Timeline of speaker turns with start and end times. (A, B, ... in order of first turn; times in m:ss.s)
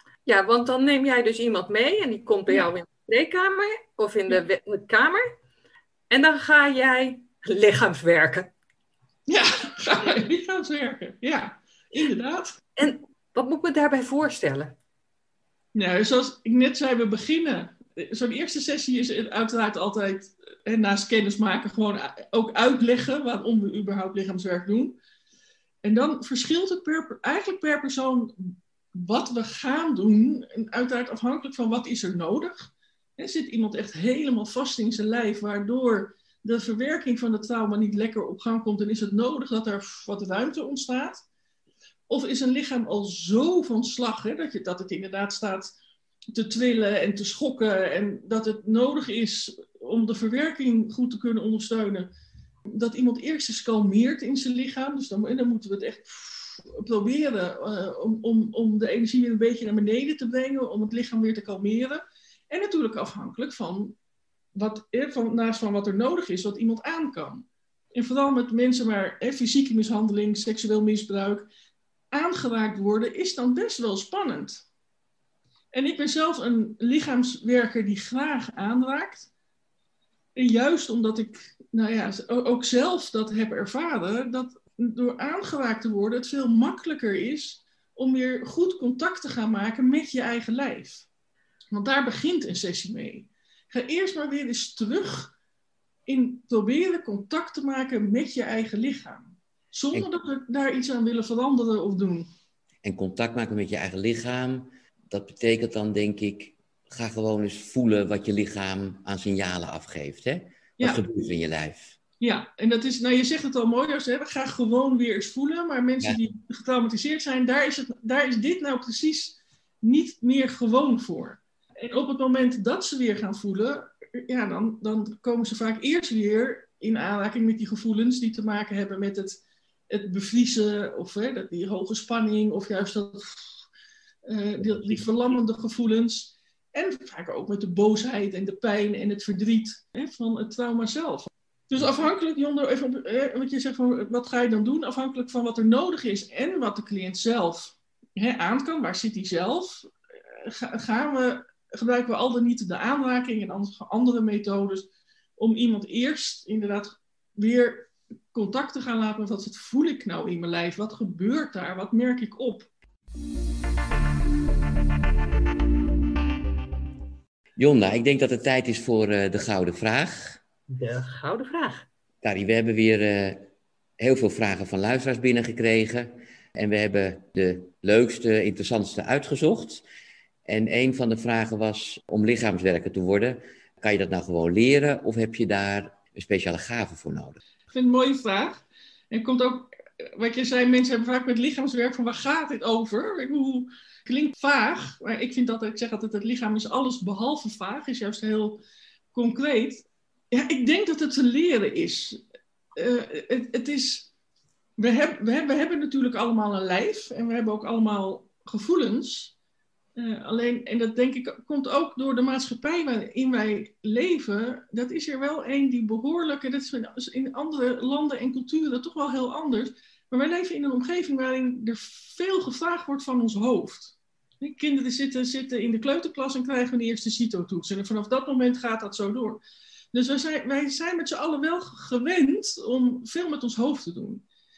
0:00.2-0:05.2 A
0:06.1-0:08.5 A
0:09.3-0:12.6 B
0:12.8-0:14.7 A
0:15.7-0:25.0 B
0:25.8-0:41.2 B
0:42.1-0:45.7 B
0:46.3-0:52.1 B
0:52.7-1:04.0 B
1:04.5-1:11.5 B
1:12.1-1:14.6 B
1:15.7-1:19.3 B
1:20.4-1:31.0 B
1:31.7-1:35.3 B
1:36.1-1:42.3 B
1:42.8-1:52.0 C
1:52.2-2:13.5 B
2:14.2-2:42.7 B
2:14.6-2:15.0 C
2:47.6-2:50.4 C
2:50.7-2:51.8 A
2:52.2-2:53.5 C
2:54.0-2:59.8 C
3:00.4-3:07.4 C
3:07.7-3:18.6 B
3:19.1-3:22.2 B
3:22.7-3:24.1 B
3:24.8-3:29.3 B
3:30.0-3:49.4 B
3:49.9-3:54.2 B